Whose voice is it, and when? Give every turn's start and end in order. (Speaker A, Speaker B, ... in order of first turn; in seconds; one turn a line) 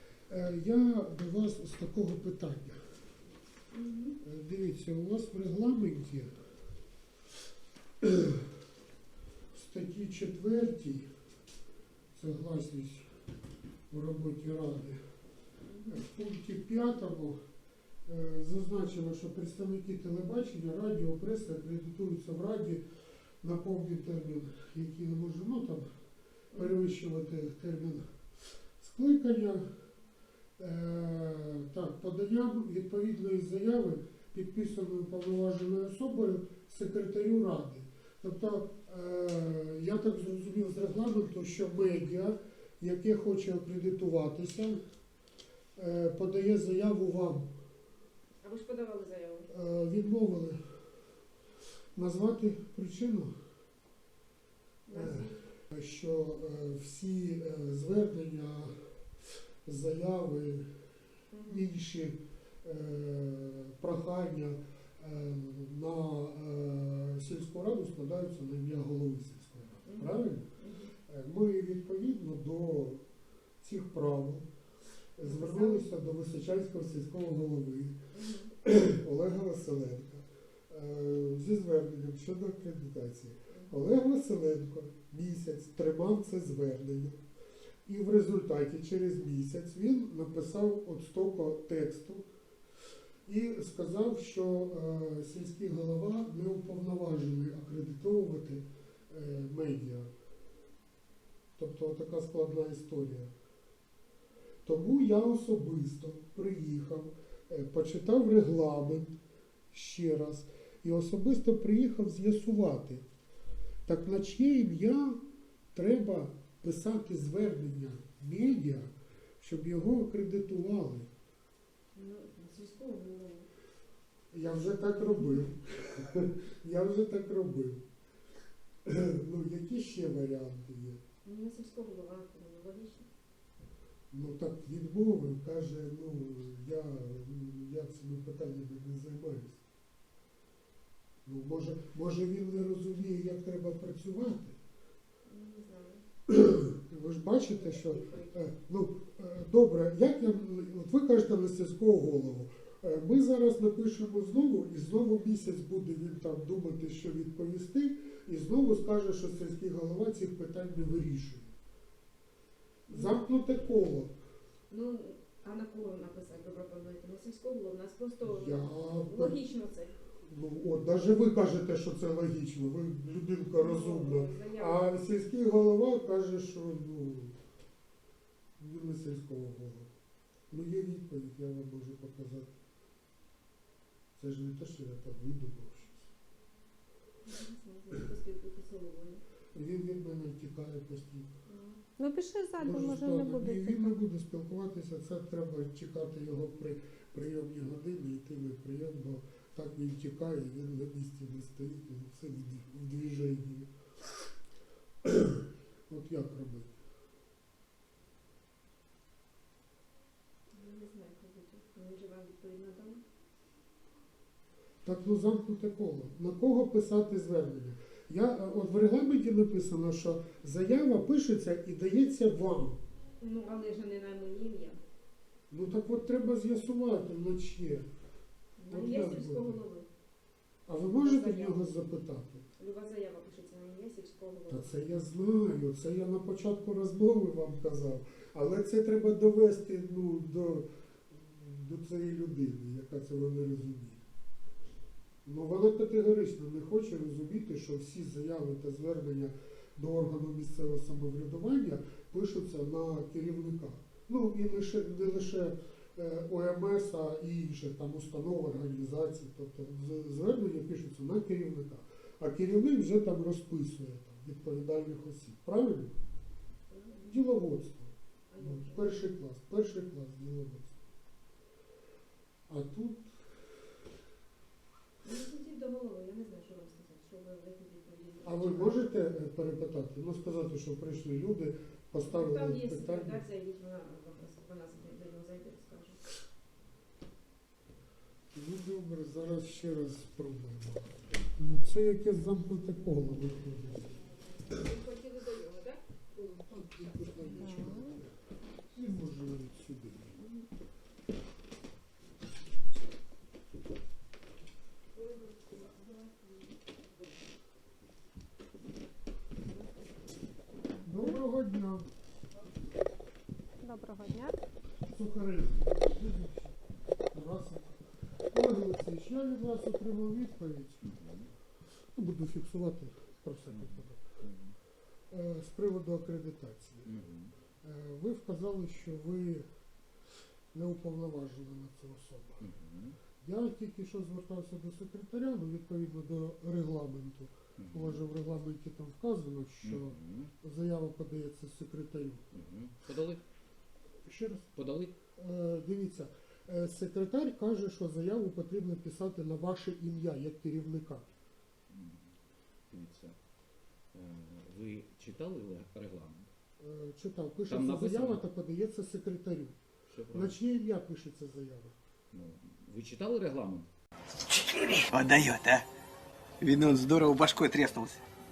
Speaker A: 0.3-2.8
Speaker B: 3.7-4.2
Speaker A: 4.2-6.3
Speaker A: 8.0-8.4
Speaker A: 9.5-11.1
Speaker A: 12.2-13.1
Speaker A: 13.9-15.0
Speaker B: 15.6-16.1
Speaker A: 15.9-17.4
Speaker A: 18.1-22.8
Speaker A: 23.4-25.9
Speaker B: 26.5-26.8
Speaker A: 26.5-28.1
Speaker A: 28.8-29.7
Speaker A: 30.6-44.8
Speaker A: 45.8-47.5
Speaker B: 48.4-49.5
Speaker A: 49.5-50.6
Speaker A: 52.0-53.3
Speaker B: 54.9-55.4
Speaker A: 54.9-58.8
Speaker A: 59.7-60.7
Speaker B: 61.3-61.7
Speaker A: 61.5-70.5
Speaker B: 69.8-70.9
Speaker A: 71.1-73.0
Speaker A: 73.6-74.5
Speaker A: 75.2-78.0
Speaker B: 75.2-75.9
Speaker B: 78.1-78.5
Speaker A: 78.6-87.2
Speaker A: 87.9-92.3
Speaker A: 93.3-100.1
Speaker A: 101.6-103.3
Speaker A: 104.7-109.2
Speaker A: 109.7-113.0
Speaker A: 113.9-115.2
Speaker A: 115.7-121.1
Speaker B: 122.0-123.5
Speaker A: 124.3-127.8
Speaker A: 128.9-131.0
Speaker B: 131.2-133.1
Speaker A: 134.1-139.6
Speaker A: 141.3-144.6
Speaker B: 145.3-146.0
Speaker A: 146.3-161.5
Speaker B: 147.4-148.4
Speaker B: 162.9-163.2
Speaker A: 162.9-164.1
Speaker B: 164.7-169.9
Speaker A: 168.2-169.4
Speaker A: 170.3-177.4
Speaker B: 173.6-174.9
Speaker A: 178.6-179.9
Speaker A: 180.5-182.5
Speaker A: 184.2-186.1
Speaker B: 187.2-189.2
Speaker A: 189.5-191.3
Speaker B: 191.5-191.8
Speaker C: 192.0-193.9
Speaker A: 192.6-203.7
Speaker A: 205.0-206.8
Speaker B: 210.5-213.0
Speaker A: 214.8-222.8
Speaker B: 223.2-224.8
Speaker A: 225.5-227.9
Speaker B: 228.6-229.9
Speaker A: 228.7-229.6
Speaker A: 230.7-232.4
Speaker B: 231.0-231.7
Speaker B: 232.6-234.7
Speaker A: 234.5-244.0
Speaker A: 245.2-265.9
Speaker B: 266.7-267.2
Speaker A: 267.1-270.8
Speaker B: 268.3-269.0
Speaker A: 272.5-273.1
Speaker B: 275.0-278.9
Speaker A: 278.2-283.2
Speaker B: 282.0-286.0
Speaker A: 288.3-294.0
Speaker B: 294.5-295.8
Speaker A: 296.1-298.1
Speaker C: 297.4-297.8
Speaker A: 298.7-300.3
Speaker B: 305.0-306.4
Speaker A: 310.9-311.9
Speaker C: 313.6-314.4
Speaker A: 314.9-316.5
Speaker A: 317.1-317.8
Speaker A: 318.3-320.9
Speaker D: 320.8-321.3
Speaker A: 322.0-324.0
Speaker D: 323.5-324.6
Speaker A: 325.1-326.9
Speaker D: 326.9-327.3
Speaker A: 327.6-329.5
Speaker A: 330.5-332.4
Speaker D: 332.4-333.0
Speaker A: 333.2-342.2
Speaker D: 337.6-338.0
Speaker D: 339.6-340.3
Speaker D: 342.3-343.2
Speaker A: 344.1-344.5
Speaker D: 344.6-344.9
Speaker A: 345.2-351.1
Speaker D: 351.7-352.1
Speaker D: 352.7-353.2
Speaker D: 353.9-356.3
Speaker A: 356.6-359.6
Speaker D: 357.5-358.2
Speaker D: 359.9-360.4
Speaker A: 360.1-361.8
Speaker D: 362.1-363.7
Speaker E: 364.3-365.7
Speaker E: 366.4-368.0